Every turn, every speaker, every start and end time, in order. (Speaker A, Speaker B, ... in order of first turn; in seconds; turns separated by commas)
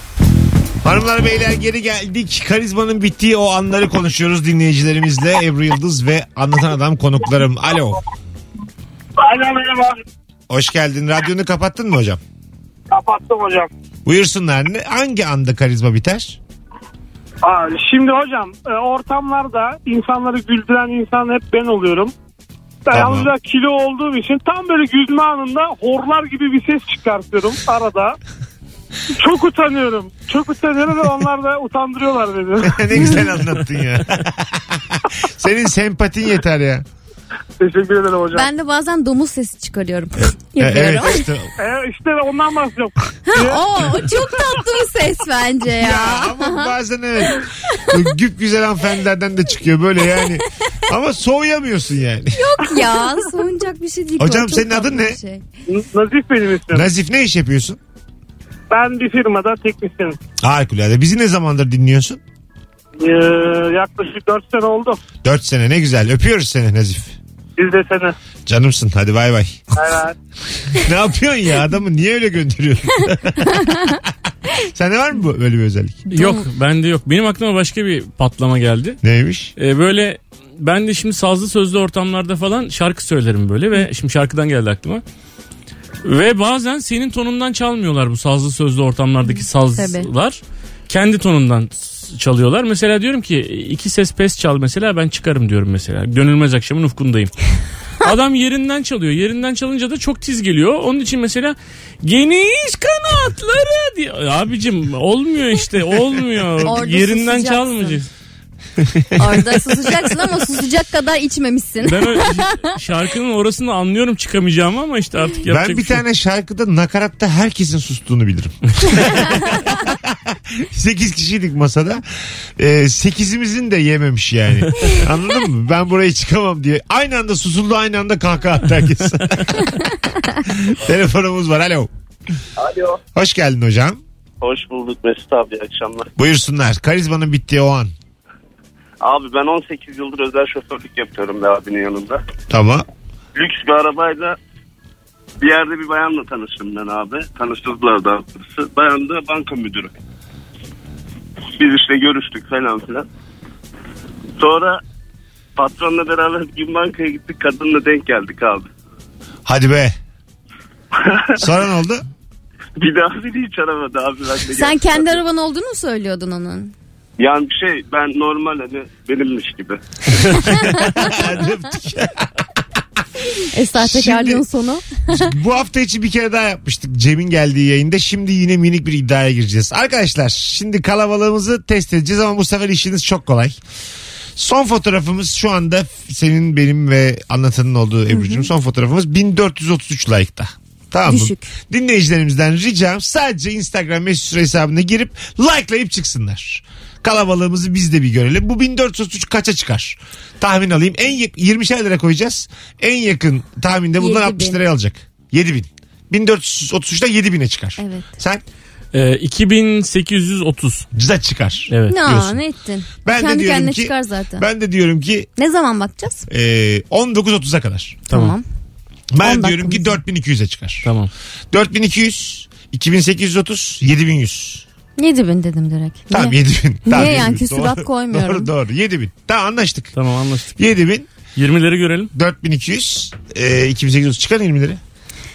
Speaker A: 0.8-8.0, Speaker B: 9.2-10.0, Speaker A: 10.5-12.2, Speaker B: 12.9-13.7, Speaker A: 14.1-16.4, Speaker B: 17.4-22.1, Speaker B: 22.9-28.2, Speaker A: 22.9-23.3, Speaker B: 29.2-33.1, Speaker A: 32.6-36.9, Speaker B: 37.6-38.5, Speaker C: 38.3-41.2, Speaker A: 40.6-41.5, Speaker B: 41.6-43.6, Speaker C: 43.3-46.7, Speaker A: 45.8-52.5, Speaker C: 52.3-55.4, Speaker A: 54.2-55.2, Speaker B: 55.7-56.9, Speaker A: 56.7-57.8, Speaker B: 58.7-60.2, Speaker A: 60.4-62.2, Speaker B: 63.0-65.0, Speaker A: 65.2-67.2, Speaker B: 67.6-68.2, Speaker A: 68.5-69.7, Speaker B: 69.7-70.2, Speaker A: 70.7-74.0, Speaker A: 74.7-76.0, Speaker C: 76.1-76.4, Speaker D: 76.1-79.0, Speaker A: 79.0-79.5, Speaker D: 79.6-85.0, Speaker D: 86.0-97.3, Speaker C: 89.2-90.1, Speaker D: 98.0-108.1, Speaker C: 106.6-108.0, Speaker A: 109.0-109.3, Speaker C: 109.2-112.7, Speaker D: 111.8-116.0, Speaker A: 115.5-129.9, Speaker A: 130.5-131.9, Speaker E: 132.6-133.0, Speaker A: 133.2-134.0, Speaker E: 134.4-136.1, Speaker A: 136.2-137.9, Speaker E: 139.0-142.2, Speaker A: 142.5-142.9, Speaker E: 143.3-144.4, Speaker E: 145.4-149.9, Speaker E: 151.6-153.1, Speaker E: 154.4-154.8, Speaker E: 155.6-158.7, Speaker A: 159.5-159.9, Speaker E: 160.9-161.4, Speaker A: 161.4-162.1, Speaker E: 162.8-165.2, Speaker C: 164.5-166.7, Speaker E: 167.2-169.8, Speaker A: 170.3-172.3, Speaker C: 170.5-170.9, Speaker C: 173.5-175.2, Speaker A: 173.8-174.4, Speaker A: 175.1-183.6, Speaker A: 184.4-208.4, Speaker C: 188.1-188.5, Speaker C: 191.1-191.5, Speaker C: 204.0-204.6, Speaker C: 207.8-208.1, Speaker D: 208.9-210.9, Speaker A: 210.9-212.4, Speaker D: 211.7-212.0, Speaker C: 211.9-214.4, Speaker A: 213.0-215.3, Speaker C: 215.4-216.3, Speaker A: 216.3-218.1, Speaker C: 218.1-218.4, Speaker D: 218.1-218.3, Speaker A: 219.1-220.9, Speaker C: 219.2-220.0, Speaker D: 220.8-221.1, Speaker A: 221.5-224.7, Speaker C: 225.0-228.5, Speaker A: 226.1-229.9, Speaker D: 229.9-230.6, Speaker A: 230.6-231.1, Speaker D: 231.4-232.1, Speaker A: 232.1-234.8